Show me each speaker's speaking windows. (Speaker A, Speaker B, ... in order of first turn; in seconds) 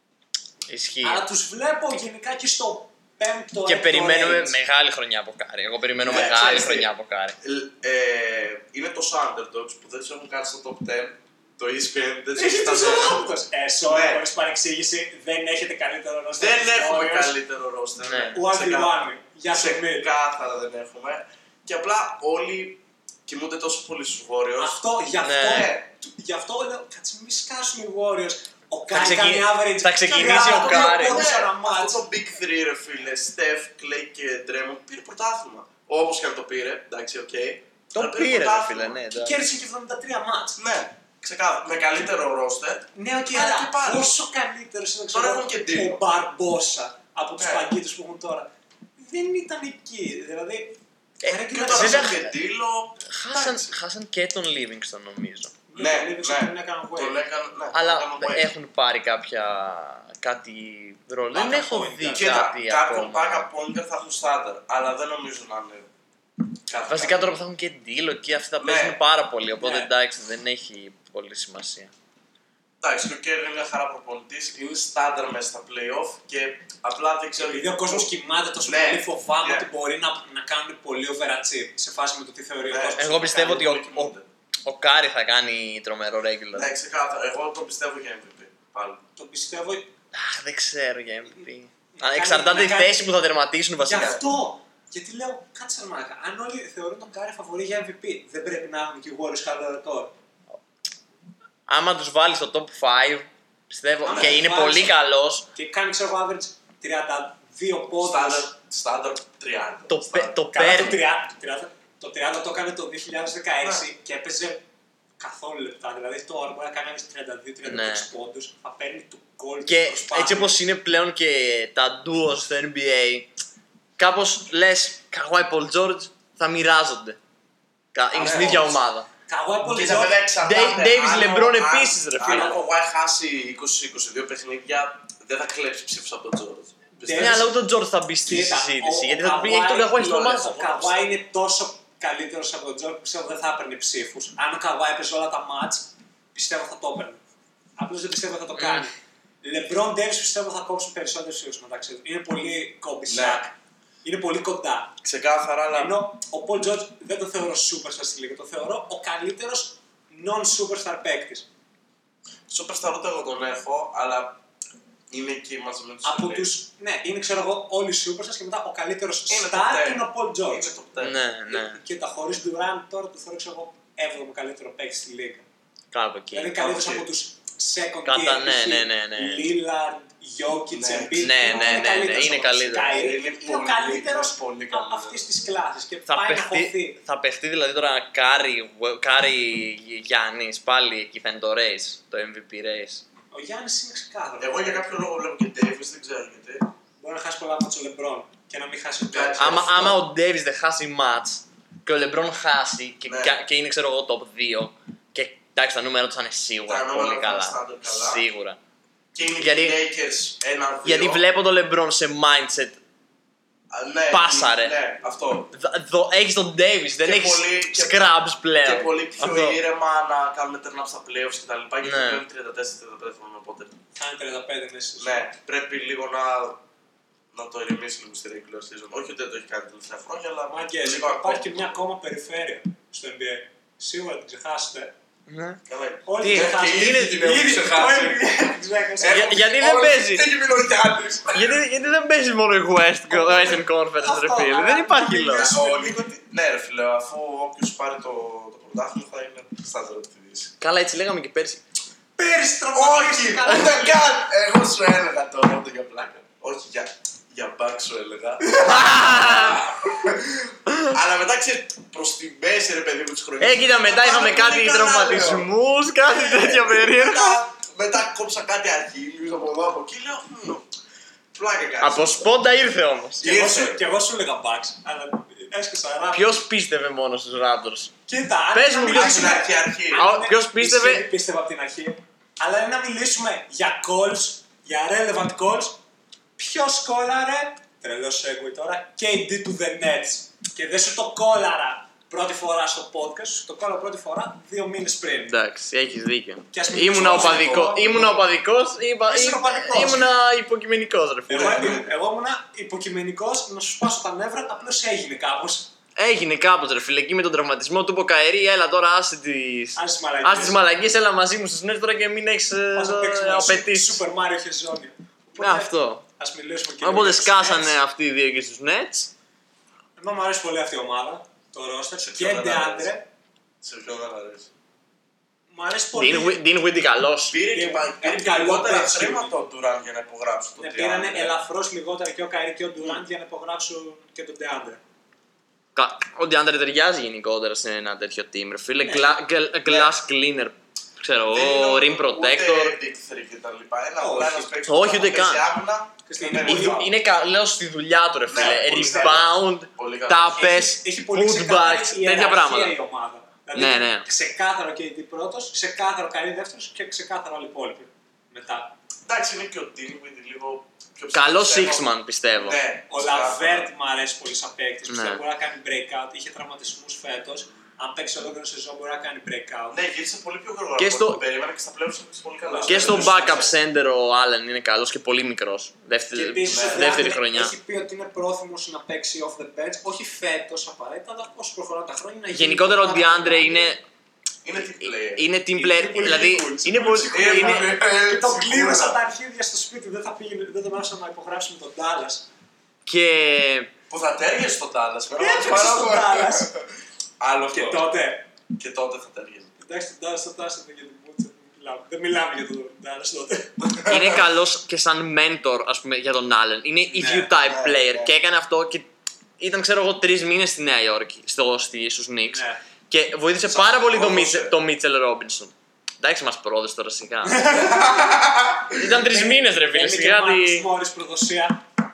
Speaker A: 0.7-1.2, 3.6-7.4, 18.0-18.4, 25.2-25.7, 28.9-31.2, 37.9-39.4, 51.2-52.4, 53.0-55.5, 57.7-63.5, 66.9-71.9, 83.0-84.1, 84.7-86.7, 90.1-94.2, 101.7-105.5, 109.9-111.0, 117.6-118.1, 119.7-123.3, 124.0-127.2, 127.9-129.1, 130.4-132.5, 137.2-140.9, 148.5-148.9, 171.0-171.8, 175.9-176.6, 178.0-179.5, 181.2-182.9, 186.1-193.0, 199.4-208.6, 209.4-209.8, 210.8-212.8, 214.1-214.8, 215.5-219.6, 221.8-222.2, 235.3-235.6, 236.2-236.6, 239.1-240.3, 241.3-245.5, 250.6-251.6, 258.6-259.7, 263.4-267.4, 271.8-273.3, 276.1-277.9, 278.5-279.4, 279.9-281.1, 295.2-301.7, 305.9-314.0, 315.4-316.0, 316.8-319.1, 325.9-327.4, 335.7-342.8, 344.6-345.4, 346.4-352.8, 353.5-354.1, 361.1-362.6, 364.9-365.2, 370.8-371.2, 372.7-377.6, 382.3-383.8, 384.9-387.7, 392.9-393.7, 403.8-408.9, 409.4-417.7, 418.7-420.7
Speaker B: 1.0-4.6, 6.0-6.8, 12.3-17.3, 18.3-20.1, 24.6-32.0, 39.1-40.6, 43.0-52.2, 55.7-57.2, 61.3-62.4, 69.6-69.9, 77.4-83.7, 89.2-89.9, 91.9-93.1, 93.8-100.1, 104.0-104.9, 105.5-108.5, 110.5-114.6, 115.2-120.5, 128.1-130.2, 131.0-131.3, 132.2-132.6, 137.0-137.5, 138.3-147.2, 147.8-155.0, 155.7-161.4, 166.0-170.7, 171.5-175.4, 176.3-187.0, 193.3-194.9, 197.0-199.9, 223.9-225.2, 230.5-234.9, 236.1-239.4, 243.1-246.1, 252.2-254.1, 273.2-276.4, 278.1-285.8, 286.4-295.3, 296.5-298.2, 299.1-300.1, 301.3-305.7, 309.8-310.6, 312.8-317.8, 320.0-323.0, 325.5-326.4, 327.5-329.3, 330.6-334.8, 338.8-339.1, 344.0-344.5, 346.1-346.9, 348.4-349.3, 350.3-358.7, 362.9-369.8, 372.4-373.5, 376.1-383.7, 385.5-392.3, 395.2-396.5, 397.5-398.3, 399.6-403.8, 406.9-407.3, 412.3-412.6, 417.2-418.2, 418.9-421.6
Speaker C: 6.0-6.8, 7.4-13.3, 13.9-14.2, 16.4-24.8, 25.5-25.8, 30.2-39.0, 40.6-44.1, 45.1-46.0, 47.4-47.7, 51.5-53.7, 55.8-58.5, 62.1-65.9, 66.7-67.3, 68.6-69.0, 72.8-78.1, 78.7-79.7, 82.7-84.3, 86.5-89.0, 94.0-94.2, 104.1-104.4, 108.0-110.3, 128.1-128.8, 129.6-137.5, 140.6-141.1, 153.1-153.4, 155.0-155.9, 162.5-164.4, 165.1-166.5, 169.3-171.2, 176.5-177.1, 180.7-182.0, 182.8-185.2, 194.4-196.7, 199.1-200.0, 203.0-203.4, 206.7-208.2, 209.1-211.2, 213.7-215.5, 217.0-218.1, 218.6-223.8, 225.0-226.6, 227.3-231.8, 235.7-241.6, 245.5-250.5, 252.7-265.5, 266.1-270.7, 271.3-272.4, 273.2-273.8, 278.9-280.1, 296.9-298.1, 301.3-301.9, 322.1-322.9, 323.6-324.5, 327.3-331.4, 339.6-339.9, 341.3-346.9, 348.3-350.4, 359.1-363.7, 369.7-373.5, 376.4-377.1, 384.4-385.2, 387.1-389.0, 393.9-396.6, 397.2-397.9, 398.5-399.5, 403.6-404.2, 407.4-408.1, 413.5-414.6, 417.6-418.7